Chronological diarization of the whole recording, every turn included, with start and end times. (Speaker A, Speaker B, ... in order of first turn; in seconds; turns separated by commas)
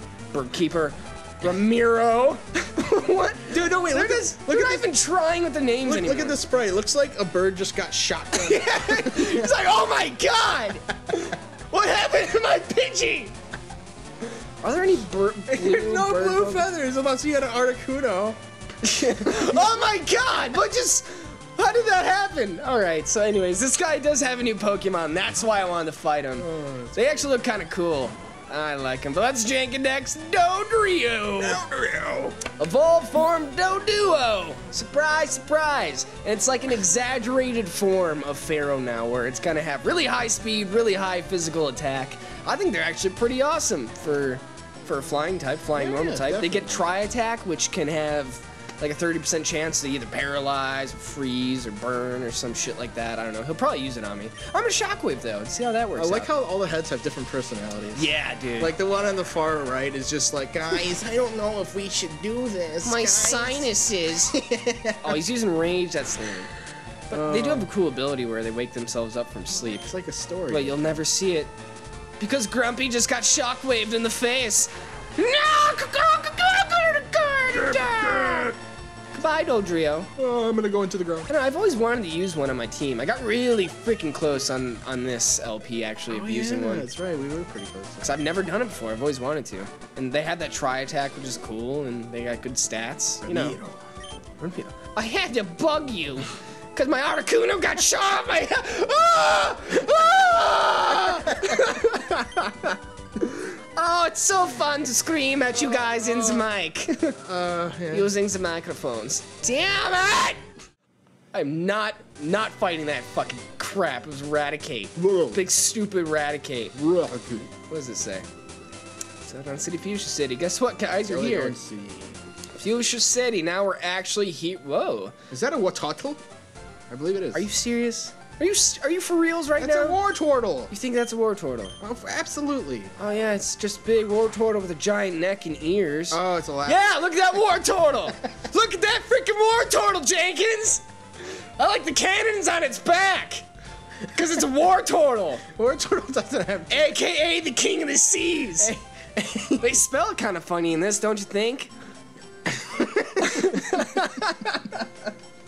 Speaker A: 0.3-6.4, Speaker B: 3.5-4.9, Speaker B: 5.8-9.6, Speaker A: 8.3-13.3, Speaker A: 14.6-16.7, Speaker B: 15.5-18.4, Speaker A: 18.8-31.6, Speaker B: 26.4-27.3, Speaker B: 31.4-32.4, Speaker A: 32.5-56.3, Speaker B: 45.7-46.9, Speaker B: 55.9-63.7, Speaker A: 57.9-58.7, Speaker A: 62.8-64.4, Speaker B: 64.2-65.2, Speaker A: 65.0-66.5, Speaker A: 67.1-69.9, Speaker B: 67.1-67.7, Speaker B: 69.9-70.8, Speaker A: 70.5-71.5, Speaker A: 72.2-78.5, Speaker B: 77.5-78.5, Speaker A: 79.1-80.1, Speaker B: 80.2-81.3, Speaker A: 81.3-86.9, Speaker B: 86.1-88.2, Speaker A: 88.0-93.6, Speaker B: 93.2-93.8, Speaker A: 94.4-107.2, Speaker B: 101.3-101.6, Speaker B: 107.2-108.1, Speaker A: 107.9-110.4, Speaker A: 111.3-116.7, Speaker B: 115.0-115.4, Speaker B: 116.7-117.5, Speaker A: 117.7-118.2, Speaker A: 119.2-121.5, Speaker B: 121.0-122.2, Speaker A: 122.6-125.1, Speaker B: 125.3-126.2, Speaker B: 126.9-127.5, Speaker A: 127.3-130.0, Speaker B: 129.6-130.7, Speaker A: 130.7-131.7, Speaker B: 131.8-132.9, Speaker A: 133.0-143.4, Speaker B: 136.1-137.0, Speaker A: 144.1-145.4, Speaker B: 145.5-146.9, Speaker A: 146.7-148.7, Speaker B: 148.6-149.7, Speaker A: 149.6-151.7, Speaker B: 152.6-153.5, Speaker A: 153.1-154.7